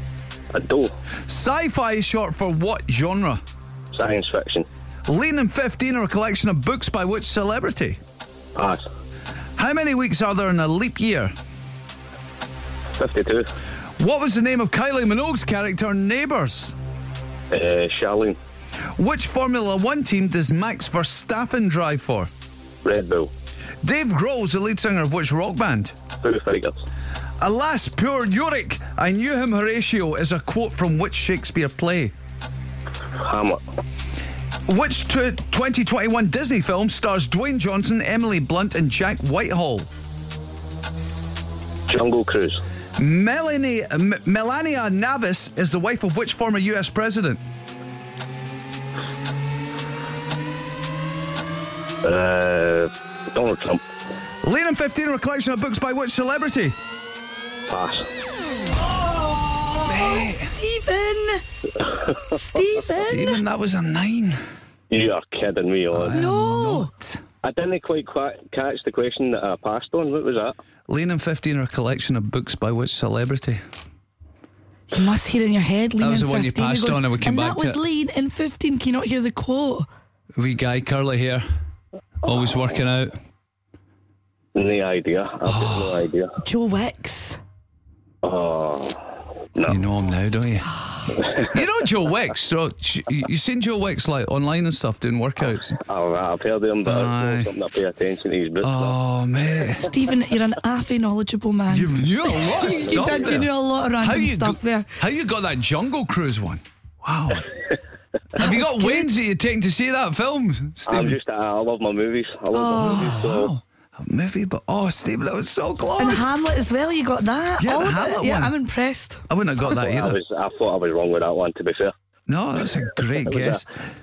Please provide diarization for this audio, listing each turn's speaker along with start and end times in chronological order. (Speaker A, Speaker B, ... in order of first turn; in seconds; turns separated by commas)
Speaker A: 0.5-0.9, Speaker B: 1.3-3.4, Speaker A: 3.9-4.7, Speaker B: 5.1-8.0, Speaker A: 8.6-8.8, Speaker B: 9.6-11.3, Speaker A: 12.9-13.5, Speaker B: 14.0-16.7, Speaker A: 17.5-18.4, Speaker B: 19.0-22.3, Speaker A: 22.8-23.3, Speaker B: 23.8-25.9, Speaker A: 26.2-26.8, Speaker B: 27.4-32.1, Speaker A: 33.1-33.6, Speaker B: 34.7-39.9, Speaker A: 41.9-42.6, Speaker B: 43.0-47.4, Speaker A: 52.0-53.8, Speaker B: 54.4-56.7, Speaker A: 57.7-58.1, Speaker B: 59.8-60.5, Speaker C: 59.9-61.4, Speaker A: 61.8-62.4, Speaker C: 62.3-63.4, Speaker B: 62.9-64.4, Speaker A: 64.9-66.2, Speaker B: 65.9-67.2, Speaker C: 66.1-66.9, Speaker A: 67.4-70.6, Speaker B: 70.9-73.6, Speaker C: 74.9-79.9, Speaker B: 76.0-77.8, Speaker B: 80.4-81.4, Speaker B: 82.2-83.1, Speaker A: 84.5-86.4, Speaker B: 85.4-86.0, Speaker C: 86.4-87.4, Speaker A: 88.2-89.0, Speaker B: 89.6-90.8, Speaker B: 91.3-95.8, Speaker A: 95.8-99.0, Speaker B: 96.8-97.5, Speaker B: 98.6-99.9, Speaker C: 99.8-105.0, Speaker B: 101.7-107.5, Speaker A: 102.6-103.4, Speaker C: 108.3-109.1, Speaker B: 108.3-111.2, Speaker A: 110.8-113.5, Speaker C: 112.5-113.1, Speaker B: 112.8-116.3, Speaker C: 116.0-119.2, Speaker B: 117.6-118.5, Speaker B: 119.3-120.2, Speaker A: 119.7-121.9, Speaker B: 122.3-123.7, Speaker A: 123.2-123.6